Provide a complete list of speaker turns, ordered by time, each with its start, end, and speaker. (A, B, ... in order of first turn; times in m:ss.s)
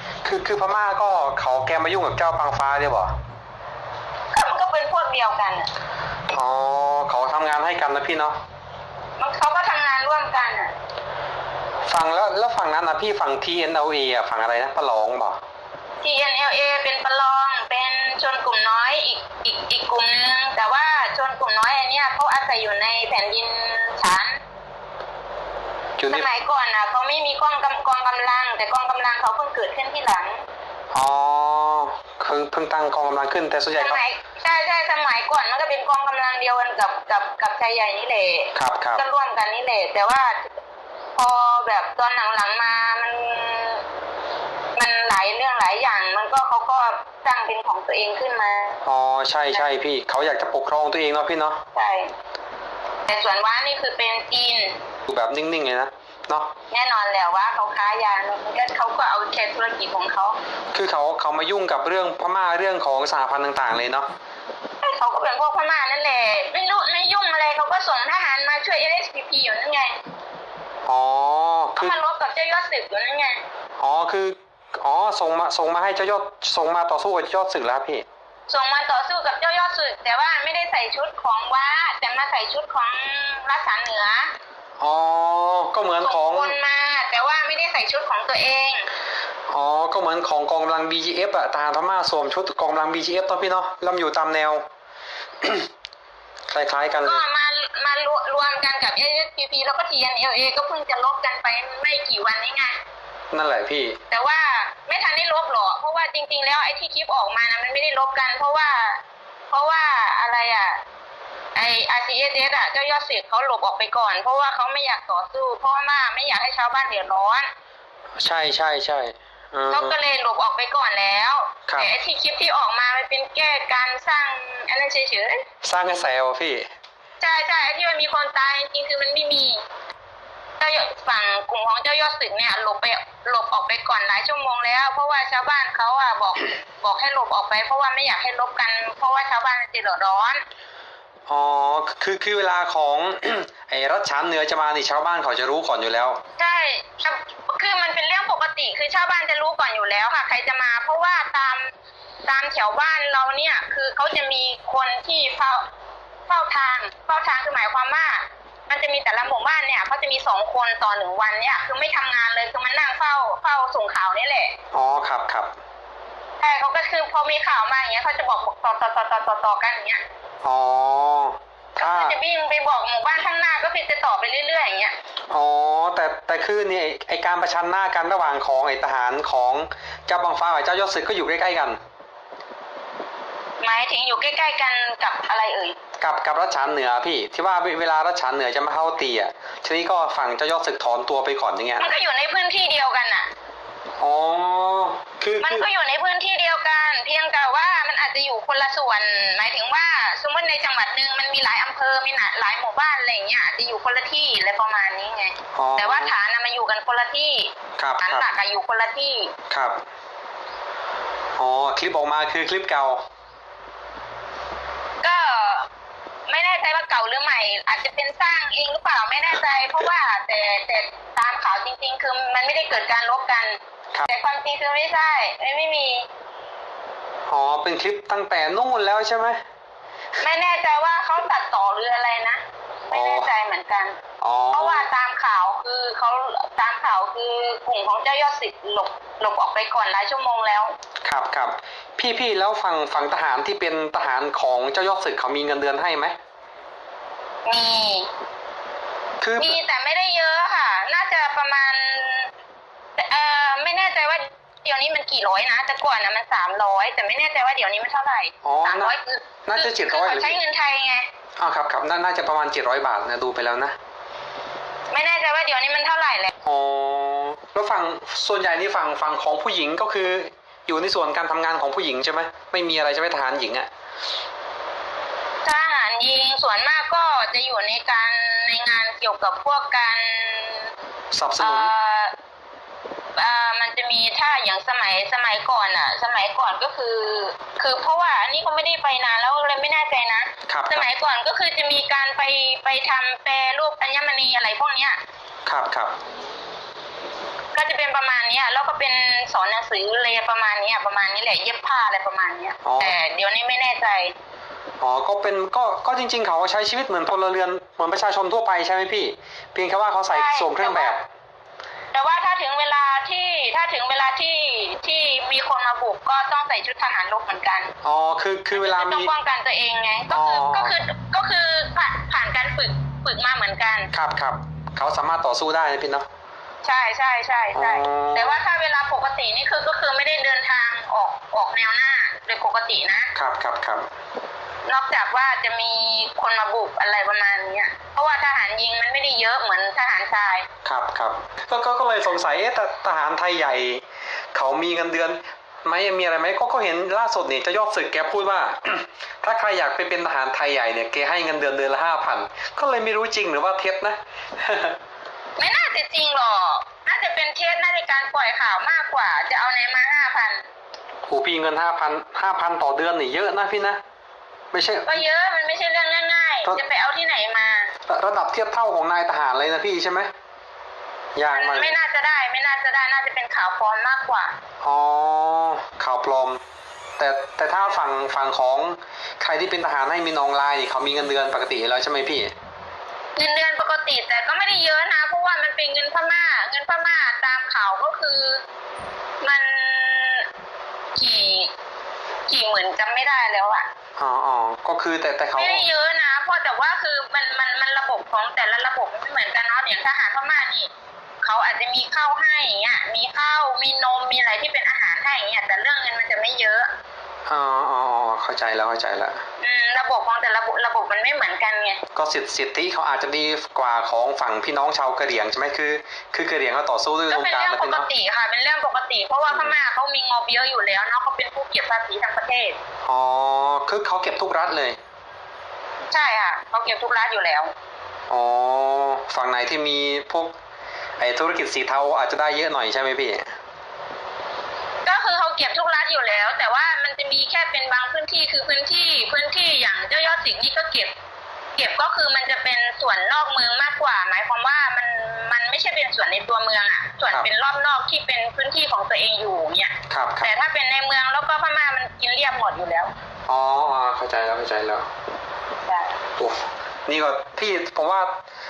0:00.2-0:03.2 A
0:04.3-0:05.7 B
0:06.3-0:08.4 A
0:09.2-0:10.7 B
0:11.9-0:15.4 A
0:16.0-0:24.4 B
0:26.0-0:26.3 A
0:26.1-0:30.4 B
0:30.9-0:34.0 A
0:33.8-0:40.4 B
0:38.6-0:39.0 A
0:41.2-0:43.8 B
0:44.8-0:48.8 B
0:48.8-0:51.6 A
0:51.7-0:52.1 B
0:53.1-0:54.8 B
0:55.1-0:56.5 A
0:56.7-1:00.4 B
1:00.7-1:04.1 A
1:04.8-1:10.0 B
1:10.9-1:12.0 A
1:11.8-1:13.4 B
1:13.8-1:18.1 A
1:18.5-1:24.3 B
1:24.8-1:26.5 A
1:26.0-1:28.9 B
1:29.5-1:34.6 A
1:35.4-1:35.7 A
1:36.5-1:37.3 A
1:37.0-1:42.8 B
1:43.3-1:44.0 A
1:44.1-1:50.8 B
1:51.6-1:57.5 B
1:58.2-2:00.0 A
1:59.7-2:05.4 B
2:05.6-2:06.7 A
2:07.2-2:09.6 B
2:10.6-2:20.4 B
2:21.3-2:26.2 A
2:26.4-2:31.7 B
2:32.3-2:35.6 B
2:36.3-2:44.6 B
2:44.7-2:45.5 A
2:46.4-2:50.0 B
2:50.4-2:52.2 A
2:51.8-2:54.9 B
2:55.3-3:01.8 A
3:03.6-3:05.8 B
3:06.0-3:11.9 A
3:11.8-3:13.3 B
3:14.0-3:15.7 A
3:15.4-3:29.3 B
3:25.6-3:26.1 A
3:27.8-3:28.3 A
3:29.5-3:29.8 A
3:31.4-3:33.0 A
3:35.0-3:35.7 B
3:36.3-3:46.1 B
3:47.3-3:49.4 A
3:50.2-3:54.0 B
3:52.9-3:53.3 A
3:54.2-3:54.9 A
3:54.5-4:00.7 B
4:01.0-4:06.2 A
4:07.5-4:08.1 B
4:09.2-4:09.6 A
4:09.4-4:12.3 B
4:13.0-4:21.1 B
4:18.4-4:19.0 A
4:19.5-4:20.4 A
4:21.4-4:23.8 A
4:24.9-4:26.3 B
4:26.4-4:33.7 A
4:35.4-4:40.7 B
4:41.1-4:41.7 A
4:41.4-4:42.2 B
4:43.2-4:55.0 B
4:50.5-4:50.9 A
4:55.5-4:56.0 A
4:57.5-5:04.1 B
5:02.6-5:03.0 A
5:04.8-5:11.0 A
5:10.1-5:11.0 B
5:11.9-5:17.7 B
5:17.8-5:19.1 A
5:18.5-5:23.9 B
5:20.1-5:20.8 A
5:23.9-5:26.1 A
5:26.6-5:33.1 B
5:27.6-5:28.4 A
5:33.2-5:33.9 A
5:34.7-5:40.5 B
5:40.6-5:43.8 A
5:44.3-5:54.8 A
5:55.4-6:00.4 B
6:01.1-6:03.8 A
6:04.5-6:05.0 A
6:04.9-6:07.7 B
6:07.9-6:10.1 A
6:11.2-6:11.8 A
6:11.3-6:14.3 B
6:14.6-6:16.4 A
6:17.0-6:22.3 A
6:23.2-6:28.4 B
6:29.2-6:30.3 B
6:31.0-6:31.5 B
6:32.3-6:33.7 B
6:34.0-6:35.6 A
6:35.4-6:40.7 B
6:41.2-6:46.7 B
6:47.3-6:49.2 A
6:49.4-6:51.8 B
6:52.0-6:57.9 A
6:57.1-7:02.6 B
6:59.3-6:59.6 A
7:02.8-7:04.8 A
7:05.9-7:07.5 B
7:08.1-7:10.3 A
7:11.0-7:13.3 A
7:14.8-7:20.9 B
7:21.6-7:32.9 B
7:29.9-7:30.3 A
7:33.3-7:34.9 A
7:35.6-7:36.0 B
7:36.2-7:38.1 A